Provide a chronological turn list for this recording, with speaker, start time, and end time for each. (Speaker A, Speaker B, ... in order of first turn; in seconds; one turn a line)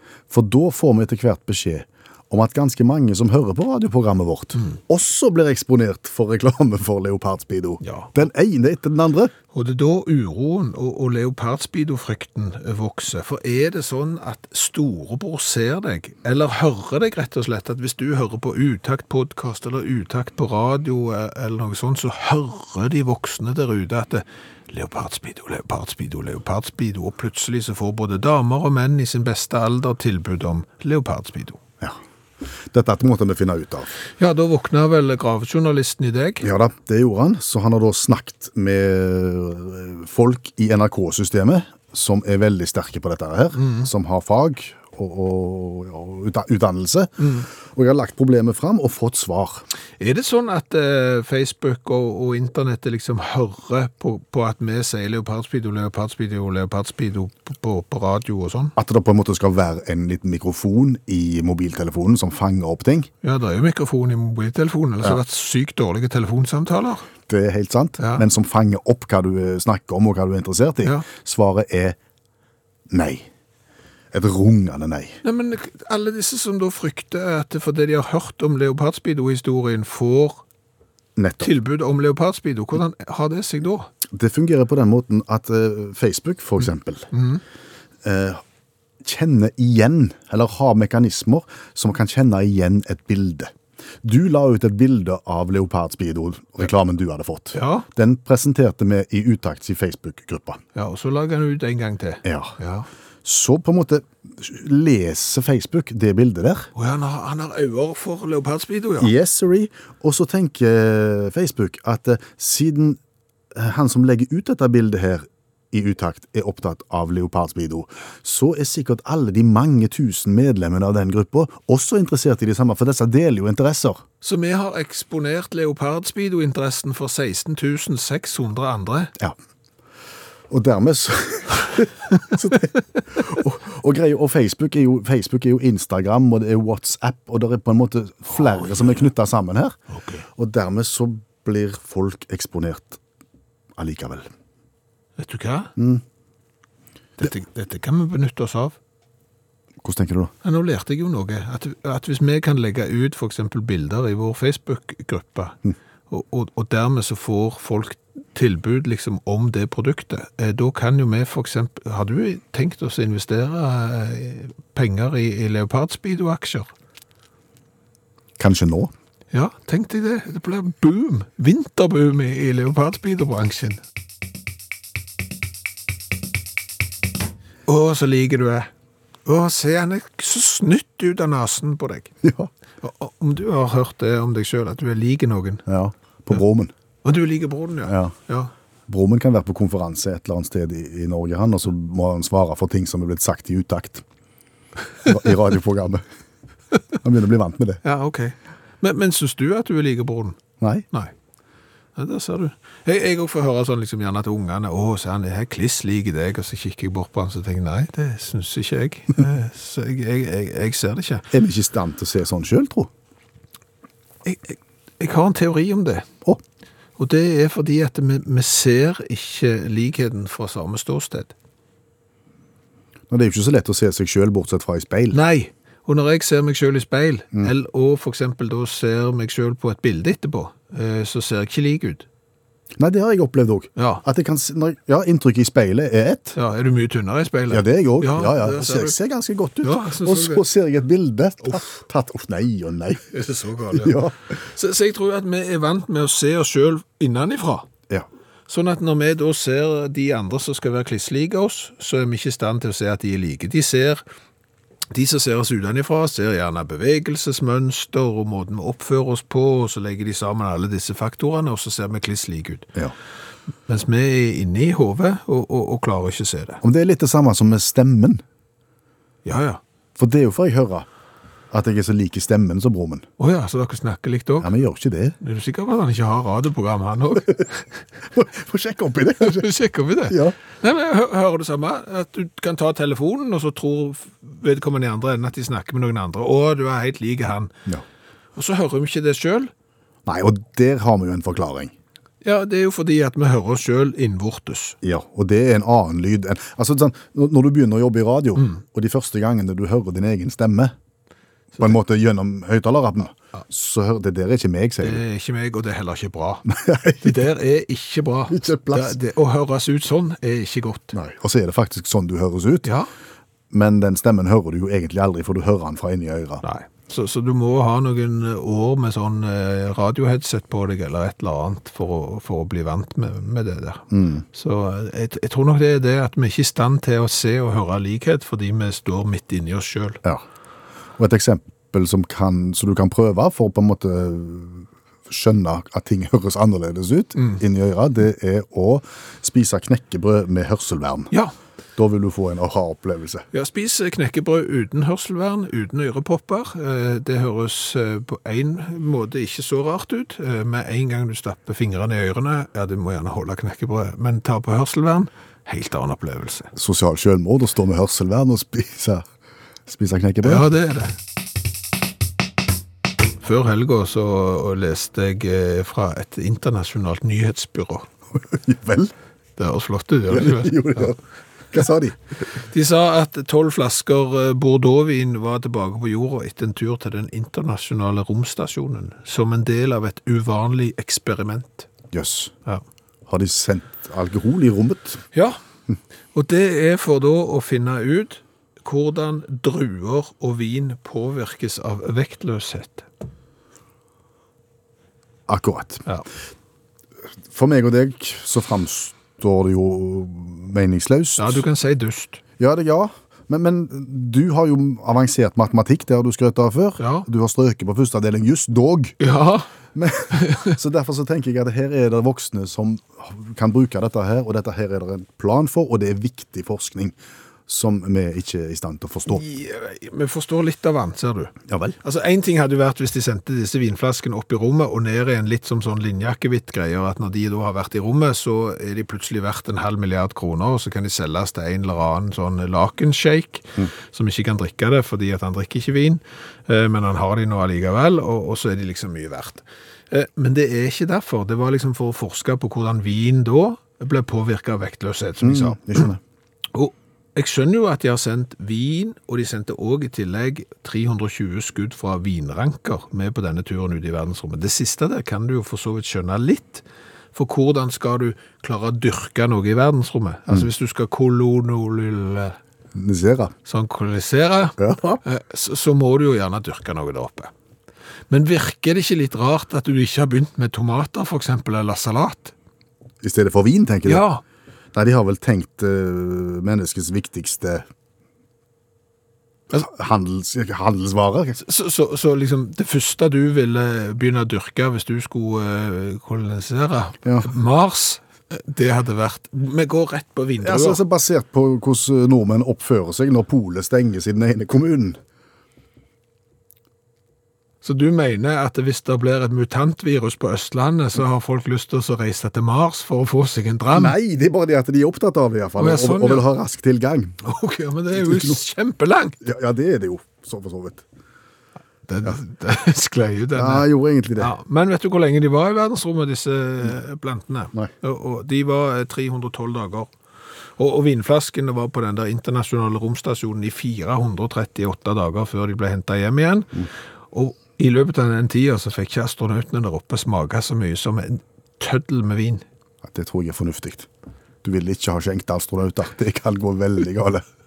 Speaker A: 0.3-9.3
Speaker B: 7.8-8.1
Speaker B: 9.5-31.6
Speaker A: 32.7-33.9
Speaker B: 34.2-36.5
Speaker A: 36.4-49.6
Speaker B: 43.6-43.9
Speaker B: 47.2-47.5
Speaker B: 50.0-58.7
Speaker A: 58.8-63.1
Speaker B: 63.2-67.1
Speaker A: 67.3-72.0
Speaker B: 68.0-68.2
Speaker A: 72.9-73.3
Speaker A: 74.1-75.2
Speaker B: 75.2-80.4
Speaker A: 81.2-81.5
Speaker B: 81.4-83.9
Speaker A: 84.1-87.1
Speaker B: 87.1-87.4
Speaker A: 88.0-88.4
Speaker A: 89.0-100.6
Speaker B: 97.5-97.9
Speaker B: 100.8-102.9
Speaker A: 102.2-102.5
Speaker A: 103.2-106.7
Speaker B: 106.8-109.1
Speaker A: 109.0-113.0
Speaker A: 113.5-124.0
Speaker B: 124.2-129.1
Speaker A: 130.5-139.8
Speaker B: 139.9-140.2
Speaker A: 140.4-143.0
Speaker A: 143.8-144.3
Speaker B: 145.2-145.7
Speaker A: 145.8-146.0
Speaker B: 147.2-148.8
Speaker A: 149.8-150.3
Speaker B: 150.4-155.6
Speaker B: 156.1-166.7
Speaker A: 168.4-168.9
Speaker B: 169.3-173.8
Speaker B: 177.7-178.7
Speaker B: 179.3-182.1
Speaker A: 182.2-182.5
Speaker B: 182.8-185.6
Speaker A: 185.7-186.7
Speaker B: 187.0-188.5
Speaker A: 187.9-188.1
Speaker A: 188.9-194.0
Speaker A: 195.1-196.0
Speaker A: 197.0-197.8
Speaker B: 197.8-200.4
Speaker B: 202.0-211.3
Speaker A: 211.3-212.9
Speaker B: 214.2-216.1
Speaker B: 217.0-221.3
Speaker A: 223.1-225.2
Speaker B: 225.1-232.1
Speaker A: 232.8-236.4
Speaker B: 233.8-234.0
Speaker B: 236.3-239.0
Speaker A: 237.5-243.1
Speaker B: 239.6-240.4
Speaker B: 243.1-247.7
Speaker A: 243.7-244.2
Speaker B: 248.5-254.0
Speaker B: 254.9-262.7
Speaker B: 263.7-266.6
Speaker A: 266.6-268.2
Speaker B: 269.2-269.6
Speaker A: 270.0-270.9
Speaker A: 271.5-273.1
Speaker B: 273.2-274.5
Speaker A: 274.4-275.2
Speaker B: 275.2-277.6
Speaker A: 278.1-279.5
Speaker B: 279.2-287.5
Speaker A: 280.1-280.4
Speaker B: 288.4-289.5
Speaker A: 290.1-291.7
Speaker B: 292.2-294.8
Speaker A: 294.8-300.7
Speaker A: 301.6-305.0
Speaker B: 304.8-310.9
Speaker A: 306.5-307.2
Speaker A: 308.3-309.0
Speaker A: 310.9-312.7
Speaker A: 313.5-316.4
Speaker B: 316.4-330.0
Speaker A: 323.9-324.2
Speaker A: 331.0-341.1
Speaker A: 341.8-343.2
Speaker B: 343.3-356.5
Speaker A: 356.6-359.1
Speaker A: 359.7-360.5
Speaker B: 360.2-361.0
Speaker B: 363.2-367.9
Speaker A: 368.1-368.9
Speaker B: 369.4-370.9
Speaker A: 370.1-371.0
Speaker A: 371.5-372.0
Speaker B: 372.5-381.7
Speaker A: 381.9-382.3
Speaker A: 383.1-385.0
Speaker B: 386.1-392.9
Speaker A: 395.3-395.8
Speaker A: 397.3-401.4
Speaker B: 401.2-402.2
Speaker A: 402.4-409.0
Speaker B: 406.8-407.1
Speaker B: 409.0-409.5
Speaker A: 409.8-416.9
Speaker B: 410.1-410.5
Speaker A: 417.5-419.2
Speaker B: 419.1-445.9
Speaker A: 421.5-421.8
Speaker A: 445.2-446.0
Speaker B: 446.5-462.4
Speaker A: 462.8-463.3
Speaker B: 463.5-467.3
Speaker A: 464.6-465.0
Speaker B: 468.1-472.3
Speaker A: 473.0-474.1
Speaker B: 473.9-474.2
Speaker A: 474.7-477.6
Speaker A: 479.5-481.4
Speaker B: 481.4-490.8
Speaker A: 490.4-495.0
Speaker B: 497.6-503.9
Speaker A: 503.7-507.2
Speaker B: 505.6-506.3
Speaker B: 507.2-509.2
Speaker A: 508.0-508.4
Speaker A: 509.2-510.8
Speaker B: 511.9-519.9
Speaker A: 513.4-514.3
Speaker B: 520.6-532.5
Speaker A: 532.9-533.9
Speaker A: 534.4-537.2